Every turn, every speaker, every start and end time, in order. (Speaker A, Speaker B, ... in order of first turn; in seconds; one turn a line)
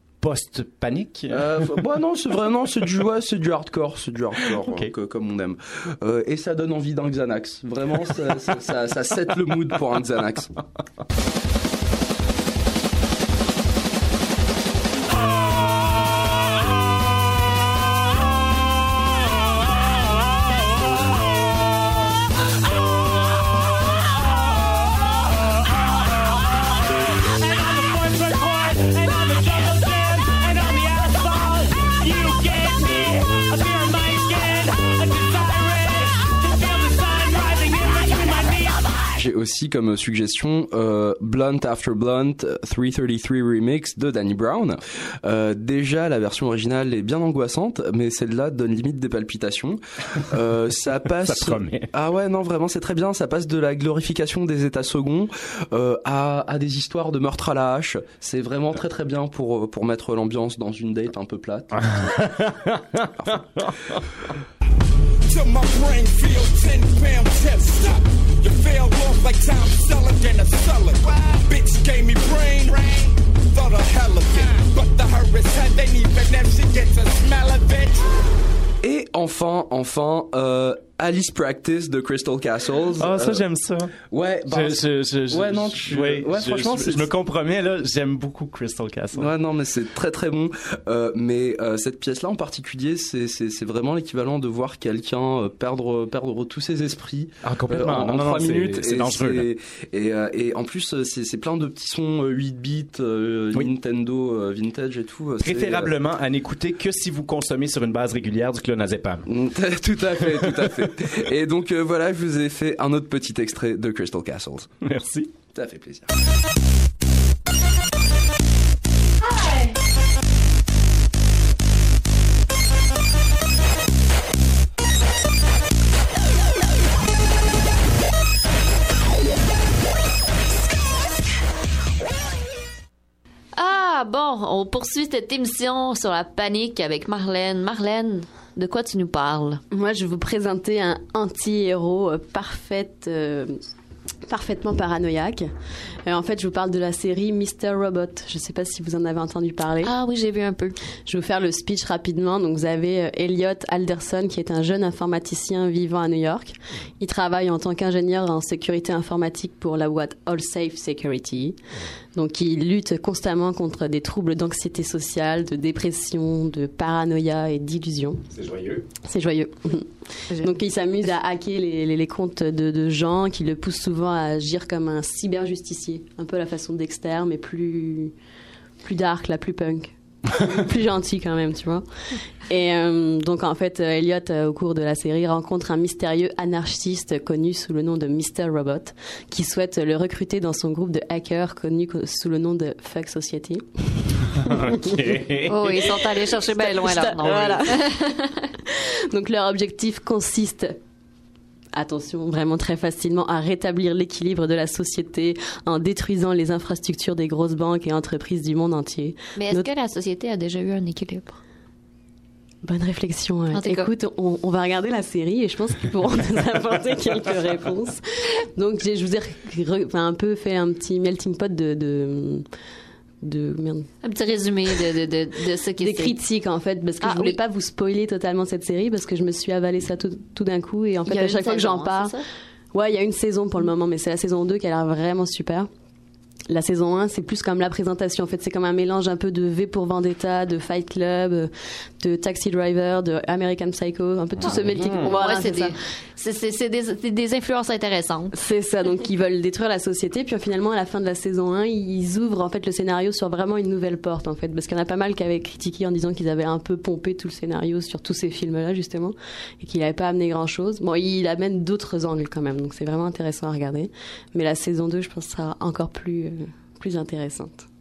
Speaker A: 0.2-1.4
Speaker B: 1.3-10.5
Speaker B: 39.1-61.8
Speaker A: 51.2-51.9
Speaker A: 61.7-64.0
Speaker C: 65.3-78.0
Speaker B: 78.8-83.5
Speaker A: 83.0-84.0
Speaker B: 84.0-87.1
Speaker A: 84.5-89.3
Speaker B: 89.1-105.9
Speaker A: 97.4-99.5
Speaker A: 105.4-109.3
Speaker B: 109.3-114.7
Speaker A: 110.4-110.7
Speaker A: 114.8-115.3
Speaker B: 115.5-116.1
Speaker D: 133.6-139.6
Speaker E: 139.7-143.6
Speaker E: 144.3-145.5
Speaker E: 146.1-149.9
Speaker D: 149.8-150.8
Speaker E: 151.1-161.6
Speaker E: 162.1-168.2
Speaker A: 168.3-168.8
Speaker E: 169.1-178.1
Speaker E: 178.8-194.9
Speaker A: 194.5-195.5
Speaker D: 195.5-198.3
Speaker E: 196.6-197.9
Speaker E: 198.7-200.8
Speaker E: 201.7-209.7
Speaker D: 209.4-211.4
Speaker E: 212.6-218.0
Speaker D: 213.5-213.9
Speaker E: 218.6-222.4
Speaker E: 223.2-223.9
Speaker D: 224.0-226.2
Speaker E: 225.8-232.1
Speaker D: 227.0-227.4
Speaker D: 231.1-232.2
Speaker E: 232.7-235.7
Speaker E: 236.5-245.8
Speaker A: 244.5-245.1
Speaker D: 245.1-248.3
Speaker E: 248.3-267.7